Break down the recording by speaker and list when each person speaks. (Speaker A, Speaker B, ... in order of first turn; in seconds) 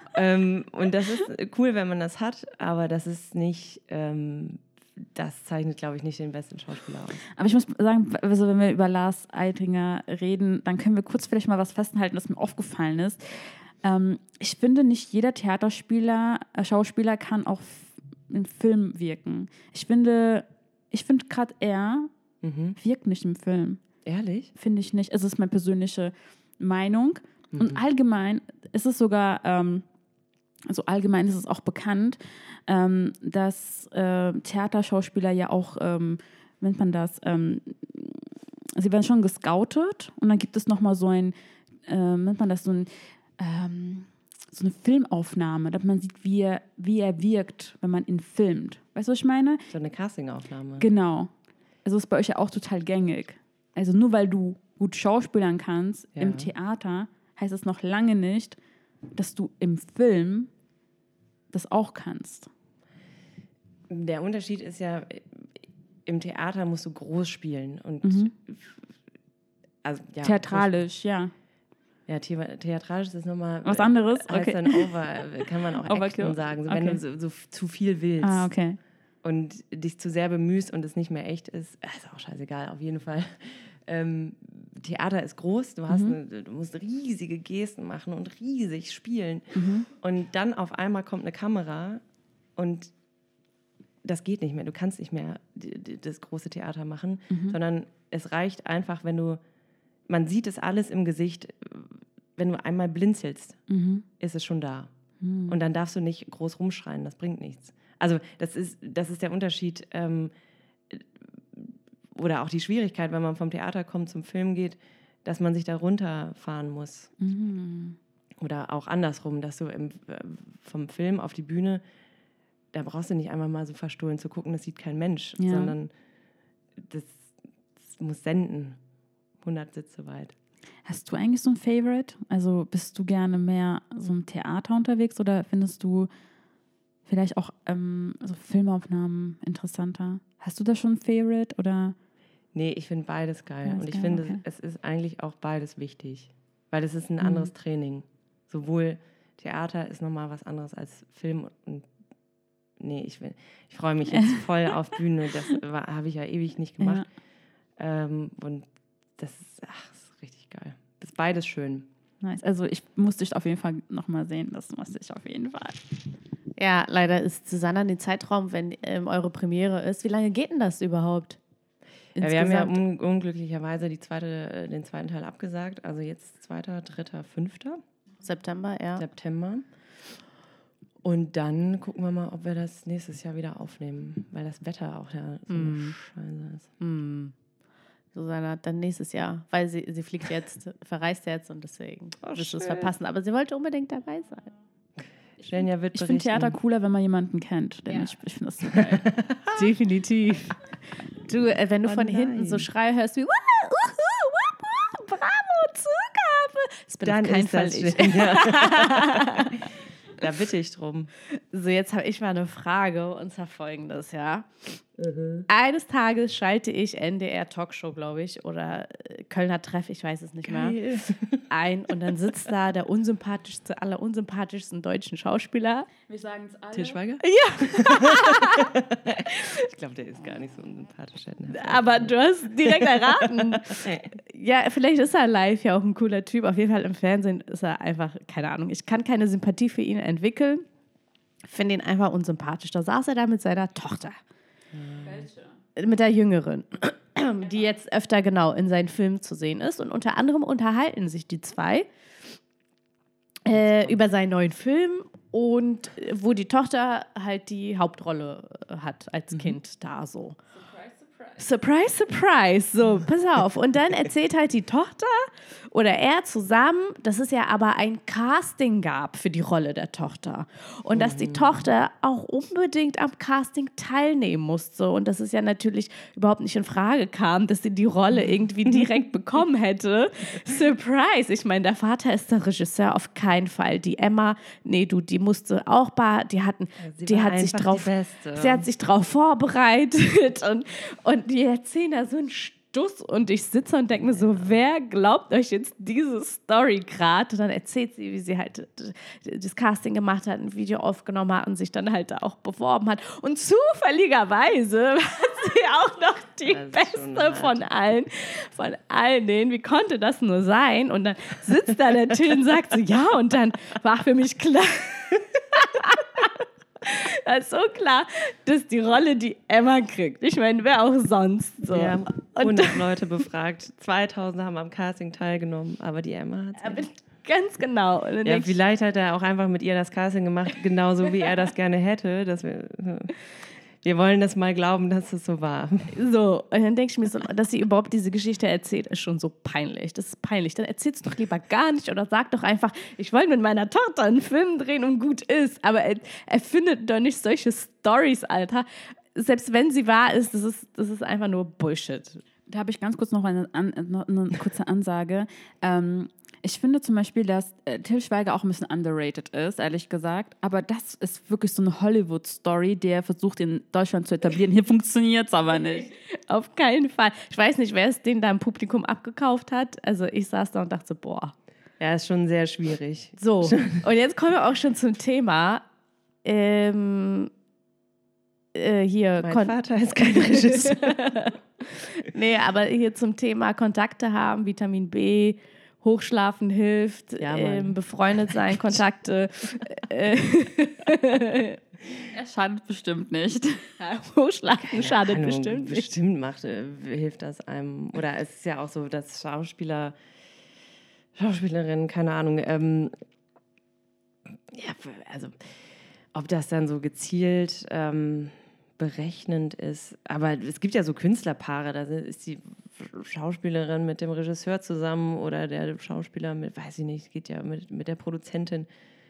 Speaker A: 0.1-7.2, 22.4-22.8, 24.1-24.5, 27.5-27.8, 49.7-50.9, 56.1-56.5, 63.9-68.8, 69.8-70.7, 72.1-78.5, 79.2-92.0, 92.6-92.9, 94.0-99.4, 100.1-103.6, 104.2-104.9, 105.5-110.3, 110.9-117.1, 118.4-121.8, 122.7-125.9, 126.8-128.8, 129.4-130.3, 142.5-151.9, 152.8-157.1, 157.8-161.9, 172.2-177.8, 179.0-179.7, 181.0-186.7, 192.2-192.9, 195.0-196.6, 199.1-199.6, 201.8-202.7, 207.0-211.1, 215.0-215.5, 220.4-221.5, 226.7-234.1, 244.7-245.3, 253.5-253.9, 270.9-271.7, 286.8-288.7, 294.0-294.5, 306.5-307.6, 321.7-326.9, 328.2-333.2, 333.8-336.0, 371.8-373.8, 379.2-381.2, 387.2-388.8, 394.6-400.0, 401.1-402.9, 404.5-405.6, 406.1-418.7
Speaker B: 7.4-22.1, 22.8-23.8, 24.6-29.9, 30.7-41.4, 41.9-49.6, 50.8-51.3, 51.9-58.6, 59.1-60.5, 61.5-62.5, 68.0-68.3, 70.2-71.3, 73.7-75.3, 75.8-77.0, 78.2-78.8, 85.9-86.2, 89.5-89.9, 97.3-97.6, 103.7-104.0, 105.2-105.6, 117.2-118.0, 125.4-125.8, 130.8-136.1, 137.1-142.0, 143.7-144.4, 147.2-147.5, 154.1-154.4, 162.2-165.8, 195.9-199.1, 226.1-227.0, 245.0-245.5, 260.7-261.4, 352.5-365.9, 392.1-393.7
Speaker C: 166.6-171.4, 172.2-172.8, 178.2-179.0, 185.5-186.0, 186.8-187.3, 188.1-194.5, 199.5-209.7, 211.4-214.8, 215.5-221.0, 221.5-225.9, 227.2-228.8, 229.3-229.7, 231.5-240.7, 241.5-244.2, 245.8-251.9, 253.4-260.4, 261.4-323.1, 326.6-328.5, 335.9-352.2, 365.9-371.4, 373.2-375.6, 376.2-377.3, 378.5-391.6, 393.8-395.9